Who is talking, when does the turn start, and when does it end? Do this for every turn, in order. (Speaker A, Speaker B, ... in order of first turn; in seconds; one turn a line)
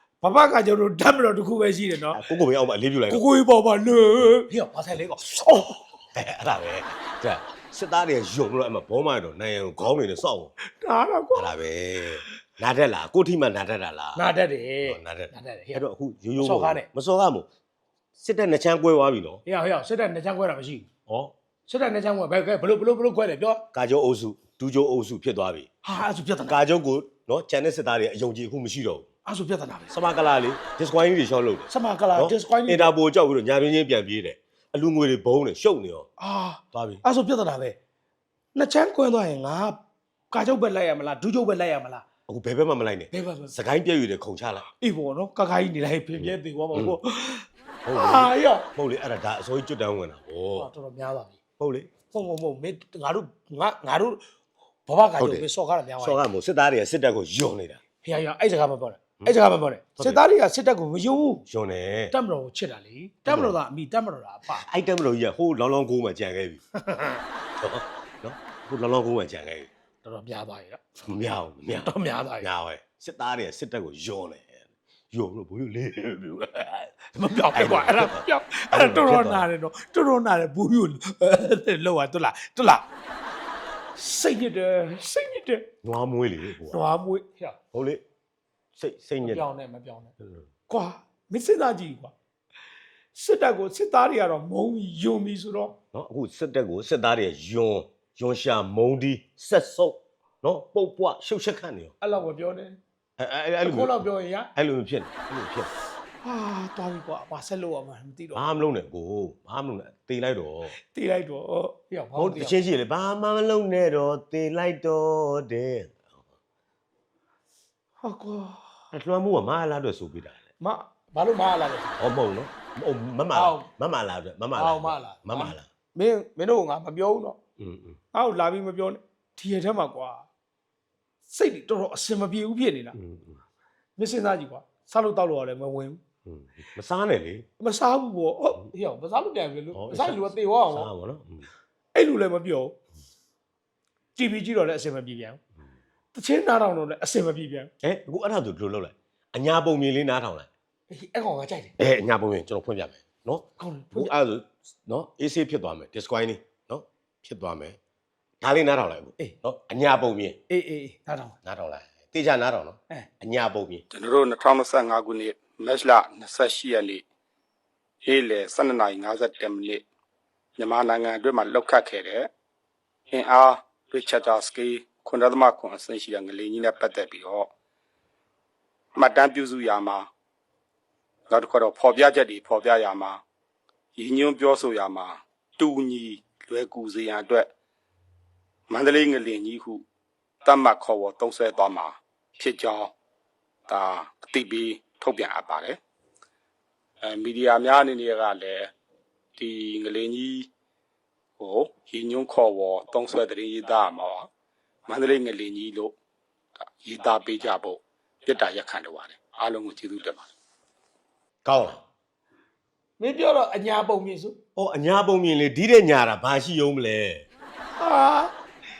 Speaker A: 0.2-2.3
Speaker B: 2.1-3.2
Speaker A: 3.1-6.0
Speaker B: 6.1-10.5
Speaker A: 10.6-11.5
Speaker B: 11.3-14.2
Speaker A: 14.1-15.8
Speaker B: 14.8-17.5
Speaker A: 16.4-16.9
Speaker B: 18.1-19.4
Speaker A: 19.4-20.9
Speaker B: 21.1-21.3
Speaker A: 21.7-23.6
Speaker B: 23.7-25.7
Speaker A: 25.8-26.6
Speaker B: 26.5-29.1
Speaker A: 29.2-29.9
Speaker B: 29.9-36.1
Speaker A: 31.7-32.9
Speaker A: 36.2-37.8
Speaker B: 36.7-37.0
Speaker A: 38.5-39.8
Speaker A: 40.3-42.0
Speaker B: 42.3-44.7
Speaker A: 43.1-43.5
Speaker A: 44.6-48.7
Speaker B: 46.1-47.0
Speaker B: 47.8-50.7
Speaker A: 50.5-51.4
Speaker B: 51.6-51.9
Speaker A: 52.1-54.2
Speaker A: 54.9-56.2
Speaker B: 55.2-55.5
Speaker B: 56.0-57.8
Speaker A: 58.0-61.4
Speaker B: 61.5-62.1
Speaker A: 62.1-64.6
Speaker B: 63.3-63.6
Speaker B: 64.5-66.6
Speaker A: 66.8-67.2
Speaker B: 67.6-69.7
Speaker A: 70.0-70.8
Speaker B: 71.0-79.5
Speaker A: 71.7-72.5
Speaker A: 77.1-82.8
Speaker A: 84.0-85.7
Speaker B: 85.8-87.0
Speaker A: 86.7-87.6
Speaker B: 87.7-88.0
Speaker B: 88.7-89.4
Speaker A: 89.2-90.1
Speaker B: 90.2-90.5
Speaker A: 90.7-92.1
Speaker A: 93.1-95.7
Speaker B: 95.9-101.9
Speaker A: 102.0-102.8
Speaker B: 103.2-104.0
Speaker A: 103.6-104.5
Speaker B: 104.5-105.7
Speaker A: 106.2-108.4
Speaker B: 108.3-110.7
Speaker A: 110.8-112.6
Speaker B: 112.2-116.0
Speaker A: 118.0-118.7
Speaker B: 118.9-120.4
Speaker A: 120.6-122.0
Speaker B: 122.0-125.7
Speaker A: 123.3-123.7
Speaker A: 124.5-127.4
Speaker B: 127.6-128.0
Speaker A: 128.1-130.3
Speaker A: 131.3-133.0
Speaker B: 132.9-133.4
Speaker A: 134.0-136.0
Speaker B: 136.2-137.4
Speaker A: 137.6-140.9
Speaker B: 139.7-141.5
Speaker A: 141.9-142.7
Speaker A: 144.2-145.4
Speaker A: 146.1-147.7
Speaker B: 147.8-150.5
Speaker A: 150.9-151.7
Speaker B: 151.8-157.8
Speaker A: 153.6-154.1
Speaker B: 158.4-160.4
Speaker A: 160.5-161.3
Speaker B: 161.4-163.8
Speaker C: 163.9-167.0
Speaker C: 168.0-169.8
Speaker C: 170.6-172.3
Speaker C: 173.1-177.5
Speaker C: 178.9-180.1
Speaker C: 181.3-183.2
Speaker C: 183.9-187.5
Speaker C: 188.7-189.8
Speaker C: 190.4-192.9
Speaker C: 193.7-195.8
Speaker C: 197.0-198.7
Speaker C: 199.4-200.5
Speaker C: 201.4-204.3
Speaker C: 204.9-205.9
Speaker C: 206.6-210.3
Speaker B: 211.4-211.8
Speaker A: 213.0-214.3
Speaker B: 214.6-217.2
Speaker A: 217.8-218.3